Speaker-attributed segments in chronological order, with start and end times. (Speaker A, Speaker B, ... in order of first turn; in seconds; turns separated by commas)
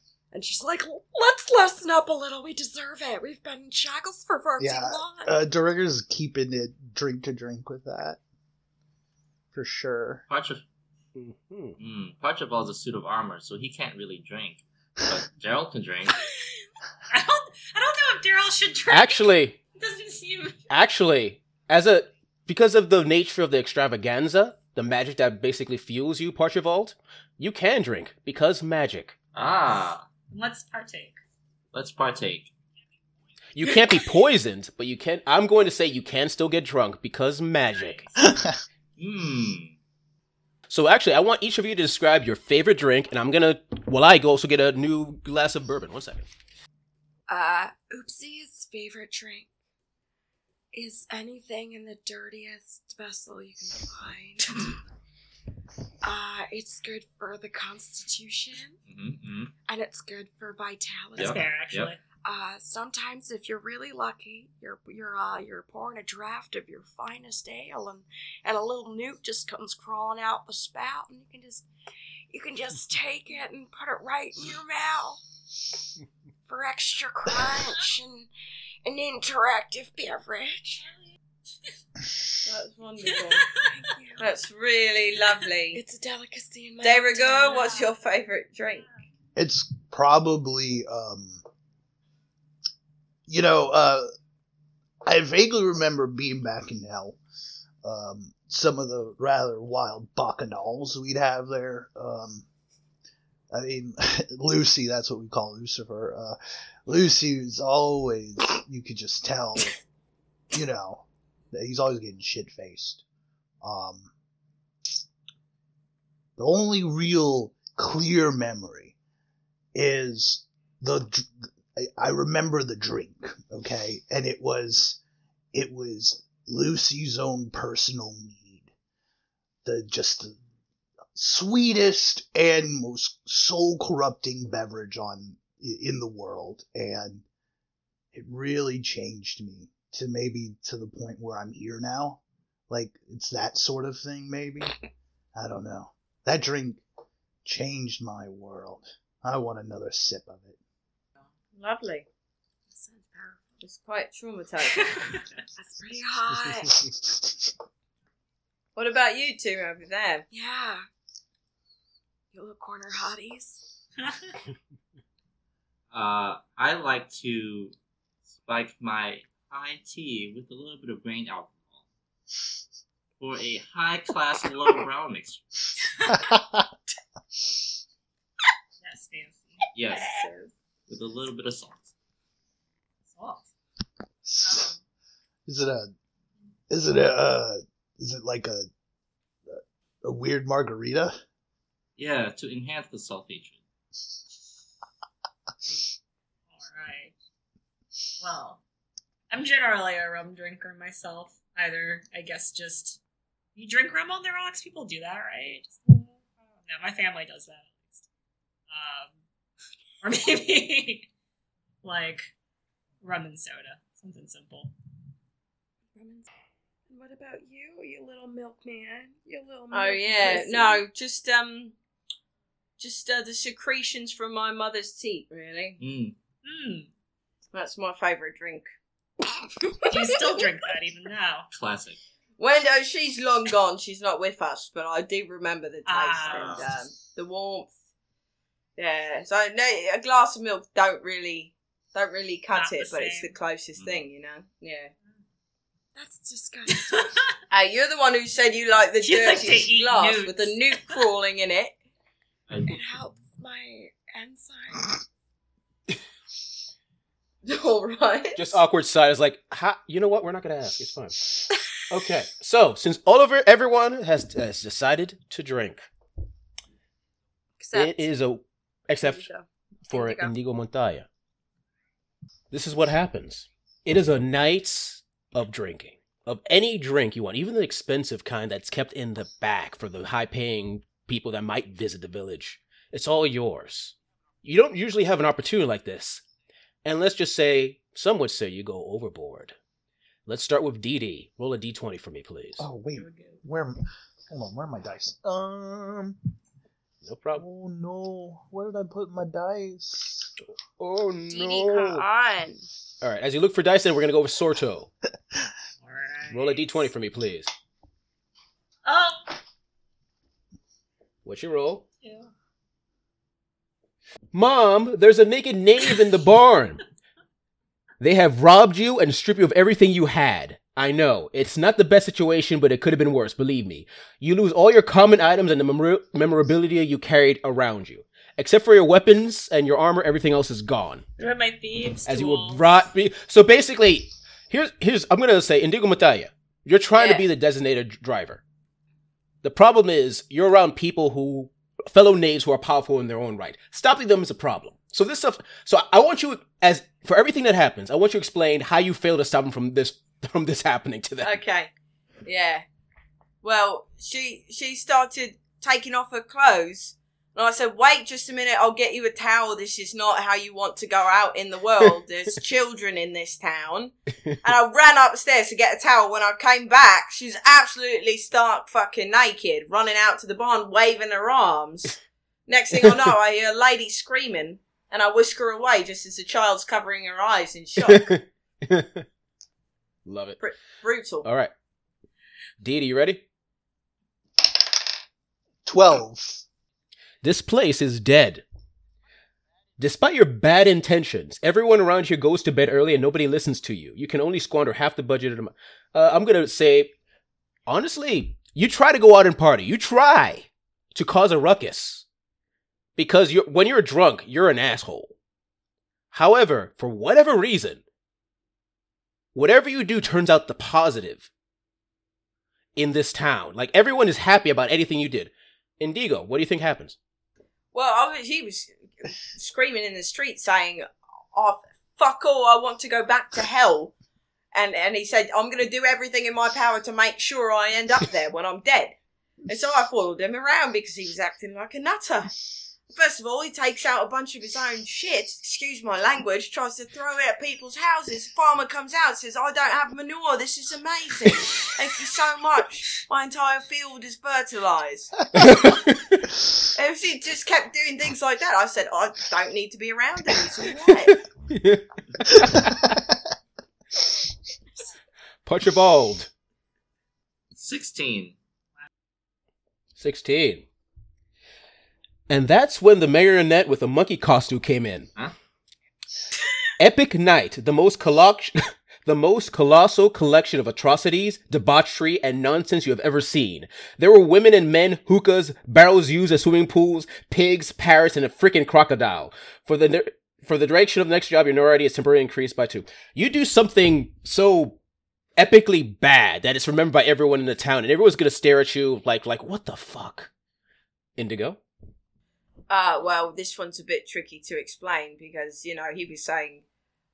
Speaker A: 0.3-5.3, Speaker B: 4.6-8.2, Speaker B: 9.5-10.2, Speaker C: 10.3-10.6, Speaker D: 11.2-11.8, Speaker C: 11.8-16.2, Speaker E: 17.1-20.6, Speaker D: 18.9-19.6, Speaker D: 20.7-29.1, Speaker C: 29.3-30.0, Speaker E: 30.3-31.2, Speaker C: 31.7-32.5, Speaker D: 33.5-38.0, Speaker E: 37.7-38.1, Speaker B: 38.2-38.6, Speaker C: 39.0-39.7, Speaker D: 40.7-46.2, Speaker A: 47.3-49.5, Speaker A: 50.7-54.7, Speaker A: 56.0-58.8, Speaker C: 58.9-59.5, Speaker A: 59.7-61.5, Speaker C: 61.1-61.9, Speaker E: 61.1-62.0, Speaker A: 62.2-71.7, Speaker A: 72.3-75.2, Speaker A: 76.5-78.3, Speaker A: 78.8-80.9, Speaker F: 82.4-83.6, Speaker A: 83.6-84.3, Speaker F: 84.2-85.8, Speaker A: 85.7-87.7, Speaker F: 86.8-88.8, Speaker E: 87.5-87.9, Speaker B: 89.3-91.4, Speaker B: 93.3-94.1, Speaker B: 95.0-97.2, Speaker B: 97.8-102.4, Speaker B: 103.5-109.8, Speaker B: 110.5-113.0, Speaker B: 113.6-114.1, Speaker B: 116.4-118.9, Speaker B: 119.7-125.0, Speaker B: 125.5-128.7, Speaker B: 129.6-130.4, Speaker B: 131.1-137.2, Speaker B: 138.1-144.8, Speaker B: 145.3-146.8, Speaker B: 147.4-150.6, Speaker F: 151.5-152.0, Speaker A: 152.7-153.5, Speaker F: 153.6-155.2, Speaker A: 155.6-156.8, Speaker B: 156.3-157.5, Speaker F: 158.8-160.2, Speaker A: 160.3-160.8, Speaker A: 162.3-163.6, Speaker C: 165.9-167.7, Speaker C: 168.4-171.8, Speaker C: 173.2-175.6, Speaker B: 176.1-176.7, Speaker E: 178.8-179.6, Speaker C: 179.7-180.2, Speaker A: 180.2-180.4, Speaker C: 180.9-181.9, Speaker E: 183.1-183.4, Speaker B: 184.2-184.7, Speaker E: 184.4-184.8, Speaker B: 185.5-185.9, Speaker B: 186.7-188.7, Speaker B: 189.5-191.2, Speaker C: 192.0-193.6, Speaker E: 196.5-197.1, Speaker E: 198.2-198.6, Speaker E: 199.3-203.0, Speaker E: 203.5-208.0, Speaker E: 208.7-209.1, Speaker E: 210.0-211.1, Speaker E: 211.8-212.3, Speaker E: 213.0-214.7, Speaker A: 215.9-216.3, Speaker A: 216.9-220.8, Speaker F: 219.7-221.7, Speaker F: 222.8-225.8, Speaker C: 225.8-226.1, Speaker E: 226.4-226.9, Speaker F: 227.5-228.7, Speaker A: 229.8-230.2, Speaker E: 229.9-231.5, Speaker C: 231.5-232.0, Speaker F: 232.4-237.7, Speaker E: 235.8-236.7, Speaker C: 236.3-236.6, Speaker A: 236.4-236.8, Speaker F: 238.8-244.9, Speaker E: 242.5-243.3, Speaker C: 243.8-244.1, Speaker A: 245.9-247.0, Speaker E: 246.7-247.2, Speaker F: 247.5-251.7, Speaker E: 249.0-251.0, Speaker C: 252.5-253.2, Speaker A: 252.6-255.0, Speaker F: 257.4-258.6, Speaker D: 258.4-265.9, Speaker A: 267.6-268.1, Speaker D: 267.7-269.3, Speaker A: 269.0-270.3, Speaker D: 269.9-271.1, Speaker D: 272.5-286.2, Speaker D: 286.8-289.6, Speaker D: 290.3-292.7, Speaker B: 292.6-296.2, Speaker E: 292.9-293.4, Speaker D: 297.0-297.4, Speaker B: 297.4-300.3, Speaker D: 300.8-302.0, Speaker A: 301.3-302.6, Speaker D: 303.0-304.9, Speaker E: 305.8-306.9, Speaker D: 306.3-307.5, Speaker E: 308.8-309.3, Speaker D: 311.2-311.8, Speaker E: 312.0-312.3, Speaker D: 314.3-316.8, Speaker D: 318.0-331.0, Speaker E: 331.2-332.8, Speaker D: 332.1-338.4, Speaker D: 339.4-351.4, Speaker F: 351.2-351.7, Speaker F: 352.2-352.6, Speaker F: 353.4-378.1, Speaker D: 377.8-379.0, Speaker D: 380.1-380.4, Speaker F: 380.4-381.3, Speaker D: 381.2-381.5, Speaker D: 382.6-383.2, Speaker B: 385.6-386.4, Speaker D: 387.2-388.4, Speaker D: 389.8-396.9, Speaker D: 397.7-402.0, Speaker D: 403.0-405.1, Speaker D: 406.1-407.8, Speaker D: 409.3-411.3, Speaker D: 412.8-417.0, Speaker F: 417.7-423.9, Speaker F: 424.5-428.9, Speaker F: 429.5-445.7, Speaker D: 445.3-446.3, Speaker F: 446.6-451.2, Speaker D: 450.9-452.9, Speaker B: 452.3-453.2, Speaker D: 455.4-456.3, Speaker C: 457.5-458.3, Speaker D: 460.0-460.7, Speaker D: 462.3-465.1, Speaker D: 466.8-484.8, Speaker D: 485.4-490.3, Speaker D: 491.2-491.6, Speaker F: 492.7-496.6